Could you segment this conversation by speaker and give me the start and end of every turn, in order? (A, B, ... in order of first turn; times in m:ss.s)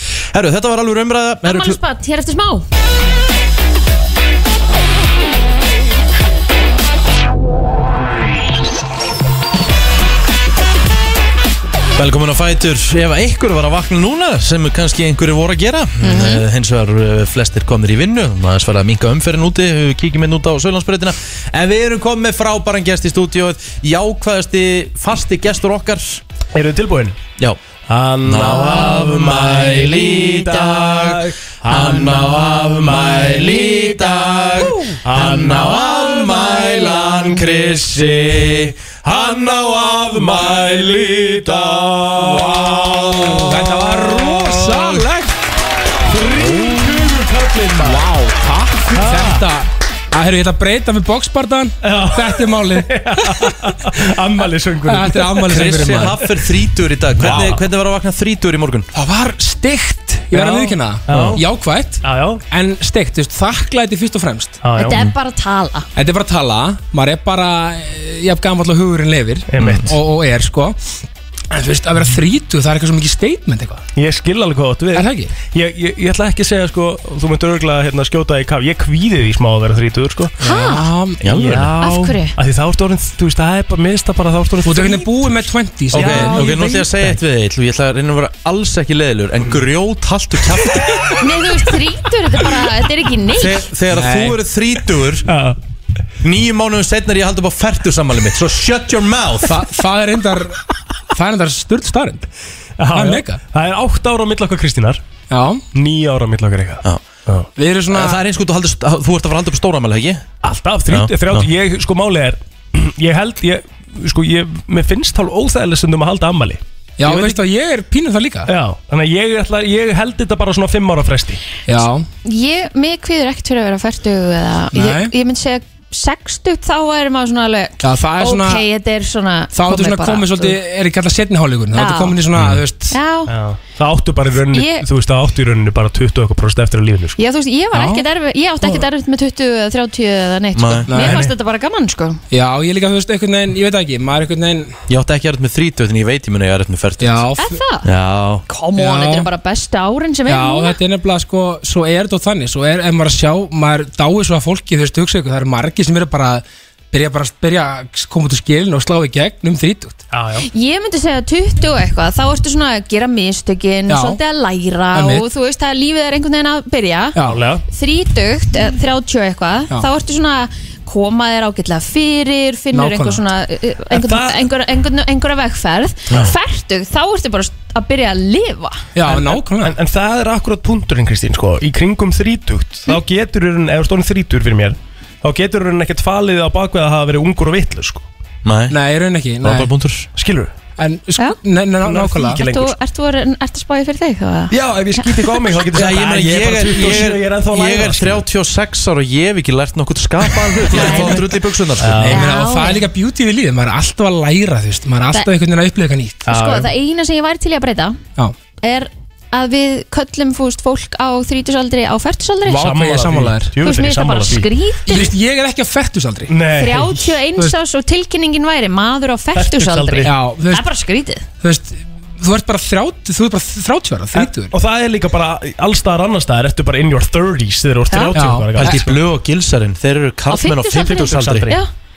0:00.3-0:01.8 A
0:01.4-0:02.6 B
0:11.9-0:26.2 A
0:16.0-0:16.4 B
0:26.5-0:27.2 C
0:27.9-0:33.3 C
0:28.2-0:43.4 A
0:35.0-0:37.2 C
0:39.1-0:45.0 C
0:43.4-0:45.3 D
0:46.1-0:48.1 C
0:46.4-0:46.9 D
0:47.8-0:53.8 D
0:48.9-0:49.5 C
0:51.8-0:56.1 C
0:54.8-0:56.2 D
0:55.5-0:58.9 A
0:57.2-0:57.6 C
0:57.2-0:57.5 D
0:58.9-1:04.6 D
1:00.3-1:01.4 C
1:01.1-1:01.4 A
1:02.0-1:02.4 C
1:04.6-1:05.0 C
1:04.8-1:05.9 B
1:06.0-1:10.8 D
1:09.5-1:09.9 C
1:09.6-1:09.9 A
1:11.5-1:13.8 D
1:14.0-1:20.4 C
1:14.9-1:15.3 D
1:20.4-1:20.9 B
1:20.4-1:21.2 D
1:21.2-1:21.7 A
1:21.2-1:25.4 C
1:21.8-1:22.3 B
1:24.6-1:26.9 D
1:25.9-1:26.8 C
1:25.9-1:31.2 A
1:31.2-1:33.6 B
1:33.4-1:35.3 A
1:33.9-1:34.4 D
1:35.2-1:35.6 C
1:36.2-1:39.6 A
1:39.4-1:40.6 D
1:41.1-1:42.3 D
1:42.8-1:45.0 C
1:42.9-1:43.4 D
1:45.3-1:45.6 D
1:45.7-1:47.5 C
1:47.6-1:48.2 D
1:47.9-1:50.2 A
1:50.4-1:57.4 C
1:50.9-1:51.5 A
1:57.0-1:58.5 D
1:58.5-2:01.4 C
2:01.7-2:02.0 D
2:02.2-2:10.6 B
2:04.7-2:05.1 D
2:07.8-2:08.6 D
2:09.5-2:13.0 D
2:11.7-2:12.2 B
2:12.4-2:12.6 A
2:12.9-2:13.3 B
2:13.3-2:17.2 C
2:14.5-2:14.8 B
2:17.2-2:22.2 B
2:17.7-2:18.0 D
2:20.5-2:20.9 A
2:20.9-2:21.3 D
2:21.0-2:21.3 C
2:22.3-2:24.7 D
2:24.9-2:27.2 A
2:27.0-2:27.6 D
2:27.4-2:27.9 B
2:27.8-2:28.4 A
2:28.5-2:30.8 B
2:28.8-2:29.3 D
2:30.3-2:40.0 D
2:40.1-2:40.5 C
2:40.5-2:47.2 B
2:43.9-2:44.2 D
2:44.9-2:45.2 D
2:47.1-2:47.4 D
2:47.2-2:47.6 C
2:47.7-2:58.8 B
2:52.7-2:53.2 D
2:53.9-2:54.4 C
2:58.9-2:59.8 D
2:59.0-3:08.0 C
3:08.4-3:08.8 A
3:08.7-3:09.7 D
3:09.4-3:10.0 A
3:10.1-3:10.5 C
3:10.8-3:12.4 D
3:11.8-3:12.7 C
3:11.9-3:15.5 B
3:14.5-3:18.2 C
3:15.7-3:22.1 A
3:20.7-3:21.2 B
3:20.8-3:21.2 C
3:21.8-3:22.2 C
3:22.0-3:26.2 D
3:22.1-3:22.8 B
3:26.2-3:26.7 C
3:26.2-3:28.0 B
3:28.6-3:32.7 B
3:32.4-3:33.5 D
3:32.5-3:34.5 C
3:33.6-3:35.1 B
3:34.9-3:36.3 D
3:36.3-3:37.1 C
3:36.5-3:41.2 B
3:39.3-3:40.2 C
3:40.0-3:40.6 D
3:41.4-3:44.5 D
3:44.1-3:49.0 C
3:47.9-3:51.6 A
3:48.1-3:48.8 D
3:50.3-3:51.7 B
3:51.0-3:51.5 C